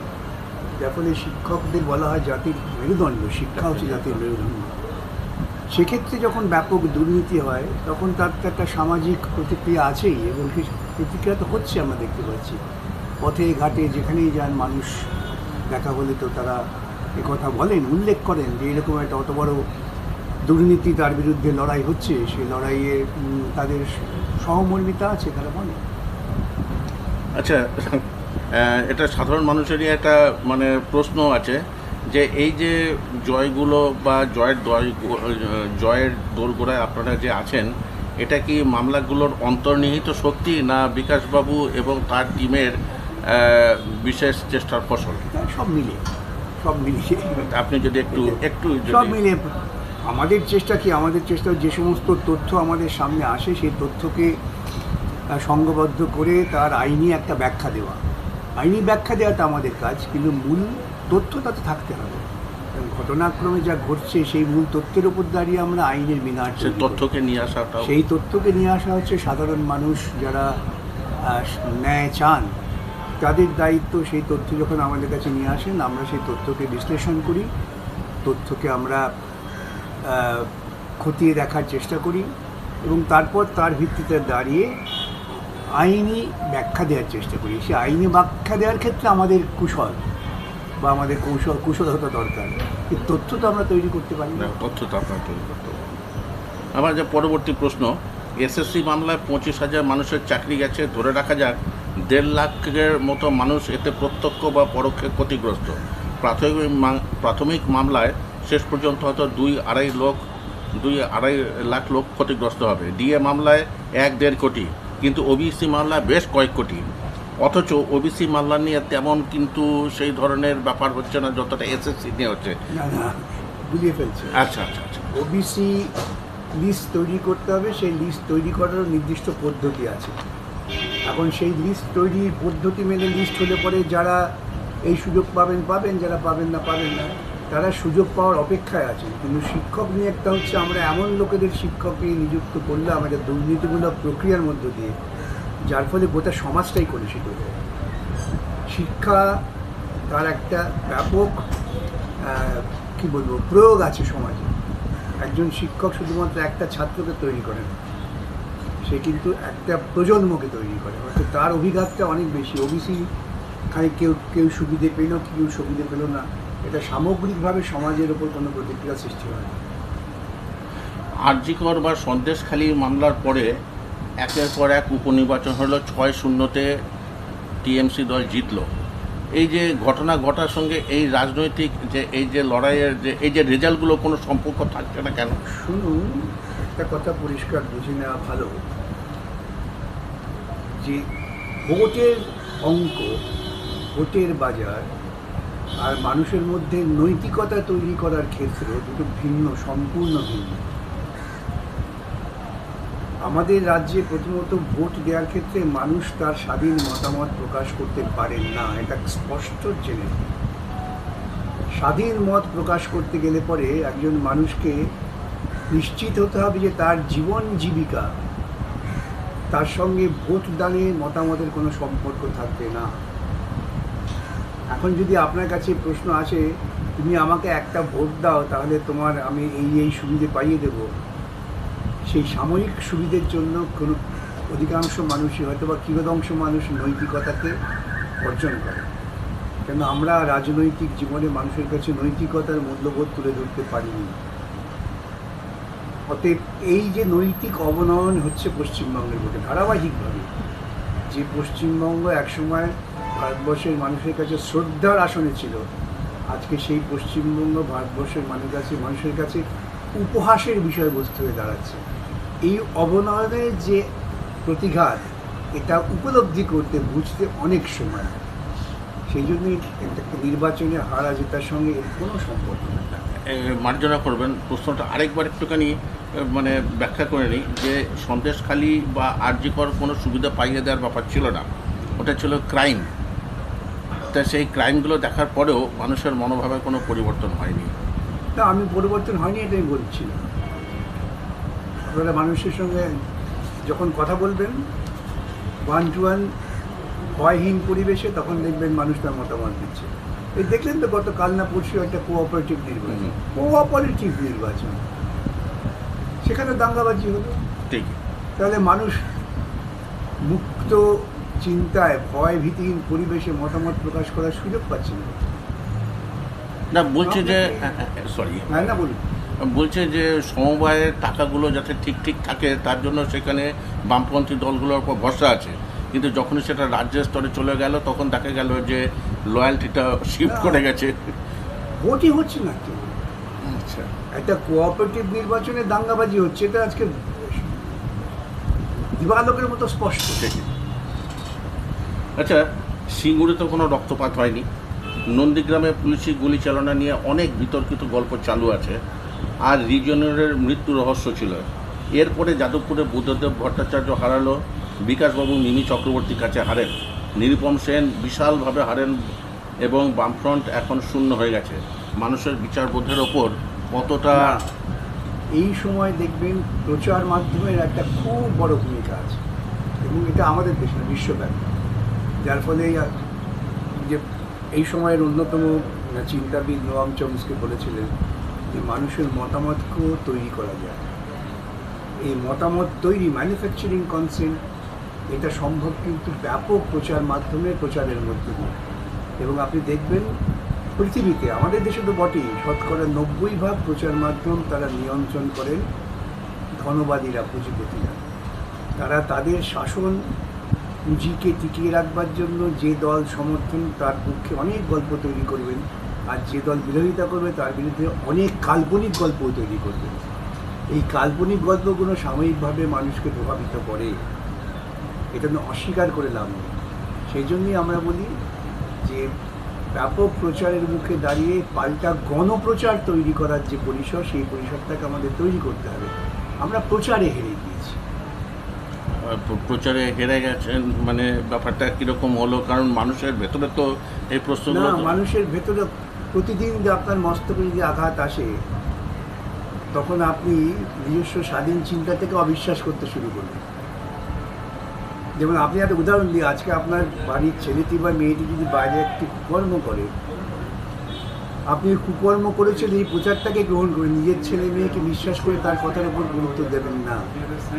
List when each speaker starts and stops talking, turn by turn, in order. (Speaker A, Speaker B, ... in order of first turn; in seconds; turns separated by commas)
Speaker A: 0.8-4.8, Speaker B: 3.6-4.1, Speaker A: 5.7-12.6, Speaker A: 13.2-15.1, Speaker A: 15.7-16.6, Speaker A: 17.2-19.6, Speaker A: 20.5-25.8, Speaker B: 27.4-37.7, Speaker B: 38.2-45.3, Speaker A: 45.3-46.1, Speaker A: 46.6-47.5, Speaker B: 47.5-49.2, Speaker A: 48.1-54.4, Speaker A: 55.3-58.0, Speaker A: 58.6-67.1, Speaker B: 66.5-68.0, Speaker A: 67.8-70.6, Speaker A: 71.2-72.6, Speaker A: 73.2-77.5, Speaker A: 78.2-79.1, Speaker A: 80.0-82.3, Speaker A: 82.8-84.8, Speaker A: 85.8-90.0, Speaker A: 90.8-94.5, Speaker B: 94.4-95.8, Speaker B: 96.8-110.2, Speaker B: 110.8-116.8, Speaker B: 117.4-122.6, Speaker A: 122.7-124.4, Speaker B: 124.3-125.1, Speaker A: 125.1-125.9, Speaker A: 126.6-130.2, Speaker A: 131.1-134.3, Speaker A: 134.9-144.9, Speaker A: 145.7-147.6, Speaker A: 148.7-149.4, Speaker A: 150.1-151.5, Speaker A: 152.2-154.5, Speaker A: 155.2-157.8, Speaker A: 158.8-163.1, Speaker A: 163.7-169.6, Speaker B: 171.2-173.6, Speaker B: 174.2-176.8, Speaker B: 177.6-178.7, Speaker B: 179.4-185.4, Speaker A: 185.5-188.5, Speaker A: 190.8-191.1, Speaker A: 191.7-193.1, Speaker A: 193.9-194.9, Speaker A: 195.8-200.7, Speaker A: 203.2-210.3, Speaker A: 211.8-214.8, Speaker A: 215.7-218.1, Speaker A: 219.5-222.9, Speaker A: 224.7-230.9, Speaker A: 232.1-237.6, Speaker A: 238.2-238.9, Speaker A: 239.7-244.2, Speaker A: 246.1-250.3, Speaker A: 251.1-255.7, Speaker A: 256.3-259.4, Speaker A: 259.9-261.8, Speaker A: 262.4-263.9, Speaker A: 264.4-268.2, Speaker A: 269.1-273.1, Speaker B: 273.2-281.5, Speaker B: 282.0-282.9, Speaker B: 284.1-287.7, Speaker A: 288.4-290.2, Speaker A: 291.8-293.0, Speaker A: 293.7-294.6, Speaker A: 295.7-296.3, Speaker A: 297.2-304.9, Speaker B: 302.9-303.1, Speaker A: 306.2-307.4, Speaker B: 307.7-308.0, Speaker A: 308.4-309.1, Speaker A: 310.2-315.3, Speaker B: 316.7-318.8, Speaker A: 317.0-317.7, Speaker A: 318.5-319.0, Speaker B: 319.4-331.2, Speaker A: 330.2-330.6, Speaker A: 331.8-333.0, Speaker B: 333.4-333.9, Speaker A: 334.1-337.8, Speaker A: 338.9-340.3, Speaker B: 340.2-340.5, Speaker B: 342.2-344.5, Speaker B: 345.1-348.8, Speaker B: 349.5-351.4, Speaker B: 352.0-359.0, Speaker B: 359.6-364.4, Speaker A: 364.1-364.5, Speaker A: 365.4-369.2, Speaker A: 369.8-371.5, Speaker A: 372.2-372.9, Speaker A: 373.7-377.9, Speaker A: 378.5-380.9, Speaker A: 382.1-384.4, Speaker A: 385.1-388.6, Speaker A: 389.2-390.1, Speaker A: 390.8-395.6, Speaker A: 396.6-398.1, Speaker A: 398.8-400.0, Speaker A: 400.9-410.1, Speaker A: 410.7-414.0, Speaker A: 415.1-416.6, Speaker A: 417.1-418.1, Speaker A: 418.8-419.1, Speaker A: 419.7-427.8, Speaker B: 428.9-435.0, Speaker A: 434.5-438.3, Speaker A: 439.7-443.4, Speaker A: 445.2-449.9, Speaker A: 451.5-457.1